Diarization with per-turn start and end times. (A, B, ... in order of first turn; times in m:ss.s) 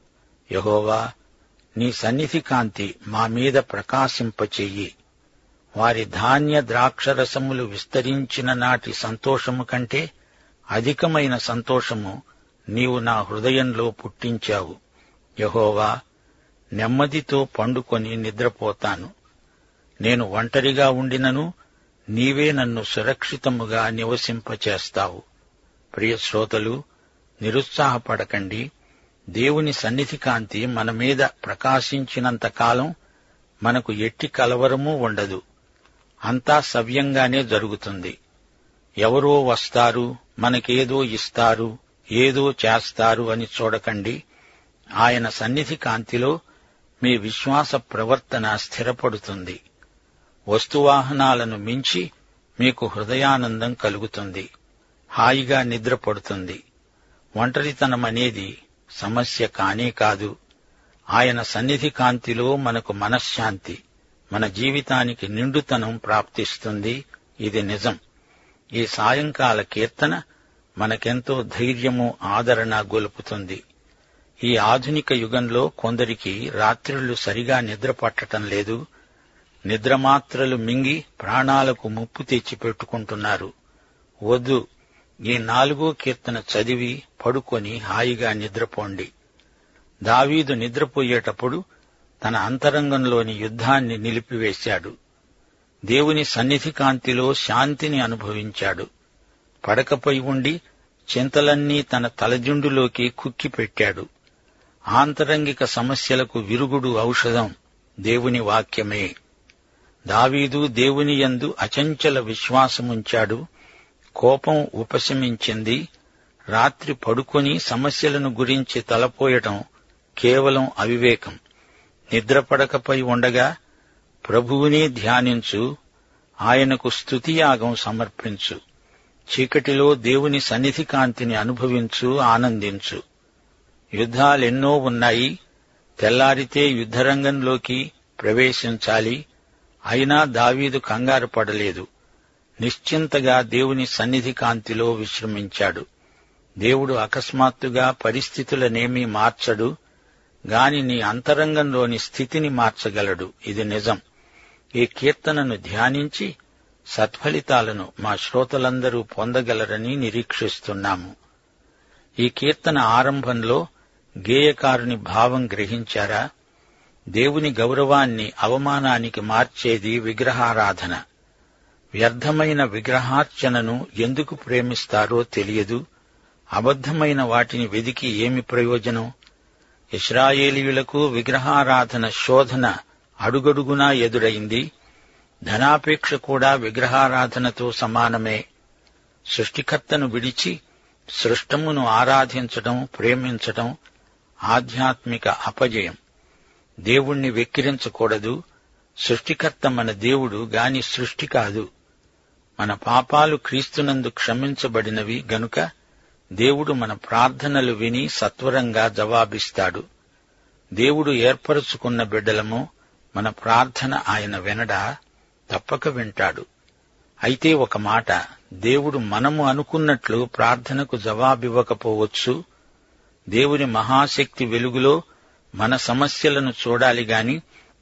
0:00.5-0:01.0 A
0:01.8-0:04.9 A
0:05.8-0:10.0 A
0:10.8-0:12.1 A
0:12.7-0:14.8 A
0:15.4-0:15.9 A
0:16.8-0:19.1 A
0:20.0-0:21.4 A
0:22.1-0:25.2 A
0:25.9-0:26.8 A
0:27.4-0:28.6 A
0:29.4-0:32.9 A
0:33.6-0:35.4 A
0:36.3-0:38.1 A
0:39.0-0:44.2 A
0:45.0-0:46.3 A
0:47.0-0:49.6 A
0:50.5-0:52.0 A
0:52.6-0:54.4 A
0:55.2-0:56.6 A
0:57.4-1:00.3 A
1:01.1-1:03.8 A
1:04.3-1:08.0 A
1:08.8-1:10.1 A
1:10.8-1:13.6 A
1:14.4-1:18.8 A
1:19.7-1:23.5 A
1:24.3-1:24.6 A
1:25.3-1:29.1 A
1:30.1-1:31.6 A
1:32.2-1:34.9 A
1:35.9-1:38.9 A
1:39.6-1:40.6 A
1:41.1-1:44.0 A
1:44.9-1:47.5 A
1:48.0-1:49.1 A
1:50.1-1:53.4 A
1:54.2-1:55.8 A
1:56.5-1:59.6 A
2:00.2-2:01.4 A
2:02.1-2:03.5 A
2:04.2-2:05.6 A
2:06.4-2:08.6 A
2:09.3-2:13.0 A
2:14.0-2:15.3 A
2:16.0-2:19.2 A
2:19.9-2:21.8 A
2:22.6-2:25.8 A
2:26.6-2:29.7 A
2:30.5-2:34.0 A
2:34.8-2:36.3 A
2:36.9-2:41.1 A
2:42.2-2:43.6 A
2:44.2-2:46.2 A
2:47.1-2:51.0 A
2:52.0-2:55.8 A
2:56.6-2:59.1 A
3:00.0-3:02.7 A
3:03.2-3:04.6 A
3:05.4-3:08.4 A
3:09.3-3:10.6 A
3:11.2-3:13.7 A
3:14.5-3:16.0 A
3:16.9-3:18.4 A
3:19.0-3:21.6 A
3:22.6-3:25.6 A
3:26.4-3:29.8 A
3:30.8-3:32.6 A
3:33.1-3:34.8 A
3:35.5-3:36.4 A
3:37.2-3:42.3 A
3:43.3-3:45.0 A
3:45.6-3:47.4 A